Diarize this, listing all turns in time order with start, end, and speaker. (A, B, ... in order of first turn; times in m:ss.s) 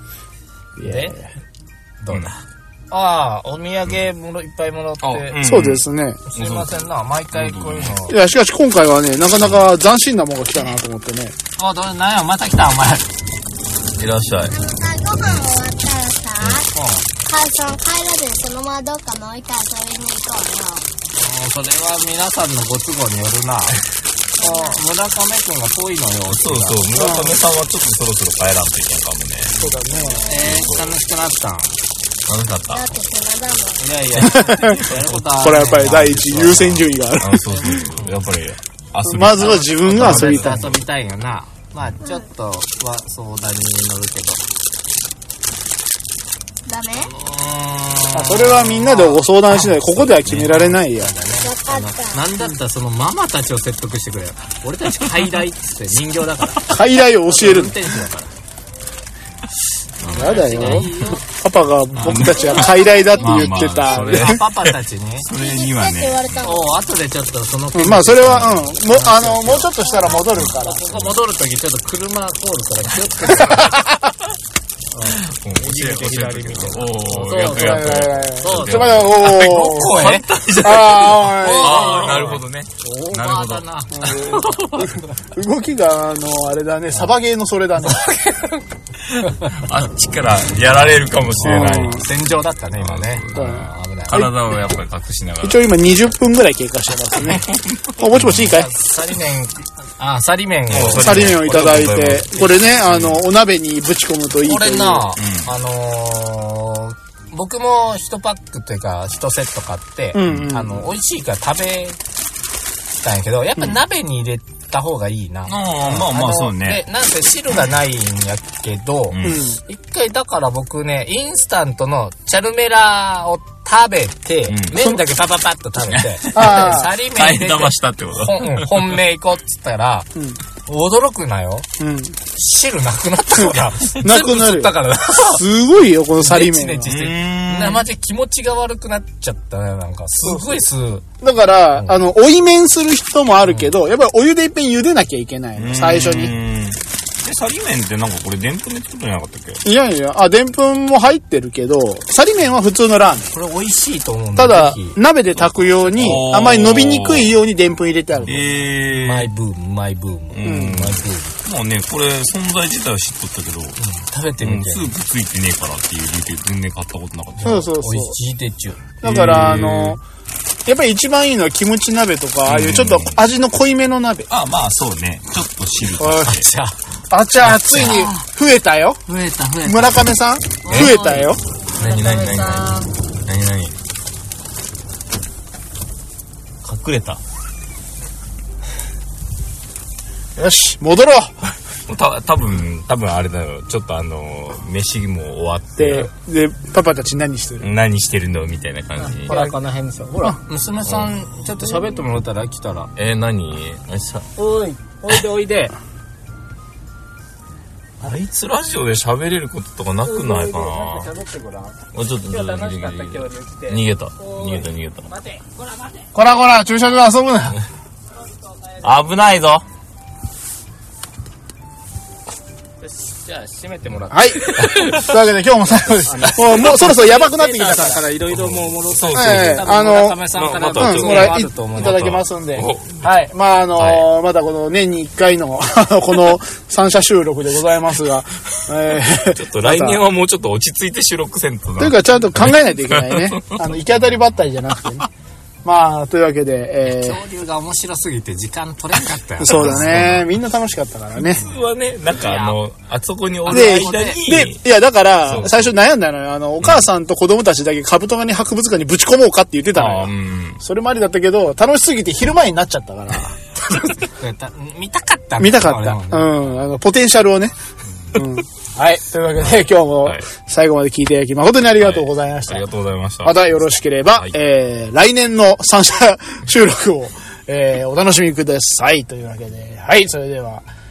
0:00.8-0:01.3 A
0:00.8-0:01.2 B
0:02.0-0:05.4 B
0:05.0-0:06.7 C
0:05.4-0:06.2 A
0:06.3-0:08.2 B
0:07.3-0:07.9 C
0:08.1-0:11.4 A
0:11.6-0:13.1 B
0:14.0-0:14.6 C
0:14.5-0:16.7 D
0:16.4-0:16.7 C
0:16.7-0:17.1 B
0:17.2-0:20.9 D
0:21.2-0:23.8 B
0:24.4-0:27.2 B
0:24.4-0:24.8 D
0:26.3-0:29.6 C
0:27.0-0:27.4 A
0:29.6-0:30.3 A
0:29.9-0:30.7 D
0:30.3-0:31.8 B
0:30.4-0:31.0 C
0:32.3-0:32.9 C
0:32.7-0:34.6 D
0:33.8-0:36.9 B
0:34.2-0:37.4 A
0:37.2-0:40.8 C
0:37.5-0:38.3 B
0:39.0-0:40.7 A
0:39.8-0:44.5 B
0:46.7-0:47.1 D
0:47.0-0:58.3 B
0:48.1-0:51.1 A
0:51.4-0:52.2 D
0:56.7-0:57.8 A
1:00.0-1:00.9 C
1:00.1-1:01.2 B
1:00.1-1:04.4 A
1:02.0-1:06.5 C
1:02.1-1:04.4 D
1:03.9-1:05.3 B
1:05.2-1:06.8 D
1:06.4-1:09.8 B
1:07.7-1:11.1 A
1:08.2-1:08.6 C
1:09.8-1:10.4 D
1:10.1-1:10.6 C
1:10.5-1:13.9 B
1:13.4-1:14.0 A
1:14.9-1:20.3 B
1:15.1-1:23.6 C
1:17.4-1:22.4 A
1:21.1-1:25.2 B
1:23.9-1:28.1 A
1:27.8-1:28.6 B
1:29.3-1:32.1 C
1:31.4-1:32.0 A
1:31.4-1:34.6 B
1:32.8-1:35.9 C
1:33.4-1:34.3 A
1:35.4-1:37.5 A
1:37.2-1:38.6 C
1:38.0-1:38.7 A
1:38.1-1:42.1 B
1:40.7-1:43.2 C
1:40.9-1:45.1 A
1:44.4-1:52.0 B
1:45.2-1:45.5 C
1:50.1-1:50.9 A
1:53.0-2:10.1 B
1:55.5-1:56.8 C
1:59.1-1:59.5 C
1:59.2-1:59.6 A
2:04.5-2:04.8 C
2:04.8-2:05.0 A
2:05.8-2:09.0 C
2:06.3-2:06.9 A
2:10.7-2:11.7 B
2:11.8-2:12.2 A
2:12.3-2:15.4 B
2:14.0-2:16.9 A
2:16.2-2:21.0 B
2:16.9-2:17.8 C
2:21.2-2:26.3 A
2:25.6-2:29.6 C
2:29.6-2:33.3 A
2:33.3-2:35.0 B
2:34.4-2:38.5 A
2:35.7-2:36.2 B
2:36.0-2:37.3 C
2:38.2-2:39.3 C
2:39.0-2:41.4 B
2:40.3-2:43.8 C
2:40.4-2:40.8 A
2:43.8-2:44.9 B
2:44.4-2:47.6 C
2:47.4-2:50.0 B
2:47.4-2:48.2 A
2:49.0-2:50.0 A
2:49.0-2:49.9 C
2:50.7-2:54.3 A
2:52.5-2:53.3 C
2:54.3-2:56.5 C
2:56.0-2:56.4 A
2:56.2-2:56.8 B
2:57.1-2:59.0 A
2:57.4-2:58.3 B
2:59.1-3:00.1 B
2:59.6-3:01.4 A
3:00.6-3:02.9 B
3:00.7-3:01.0 C
3:01.7-3:03.8 C
3:06.6-3:07.2 C
3:10.4-3:11.5 A
3:11.9-3:16.1 C
3:15.8-3:17.7 A
3:17.6-3:19.5 C
3:19.0-3:22.9 B
3:23.0-3:24.3 C
3:24.4-3:25.8 B
3:28.0-3:31.1 C
3:30.0-3:36.1 B
3:31.9-3:35.1 C
3:36.1-3:37.6 A
3:38.8-3:39.6 C
3:42.8-3:45.1 B
3:44.1-3:48.1 A
3:46.0-3:52.1 B
3:48.3-3:49.8 C
3:49.1-3:50.2 A
3:50.3-3:53.1 C
3:50.8-4:00.0 A
3:53.8-3:54.1 C
3:59.3-4:03.8 C
4:01.8-4:05.1 A
4:05.6-4:07.2 A
4:06.8-4:10.0 B
4:09.4-4:11.4 A
4:09.5-4:10.3 C
4:11.2-4:14.6 C
4:12.1-4:12.6 B
4:13.4-4:14.2 B
4:13.5-4:23.4 A
4:15.3-4:15.7 C
4:19.7-4:20.6 C
4:23.7-4:26.6 B
4:25.4-4:27.6 A
4:28.1-4:32.7 A
4:31.8-4:33.4 C
4:33.2-4:40.7 A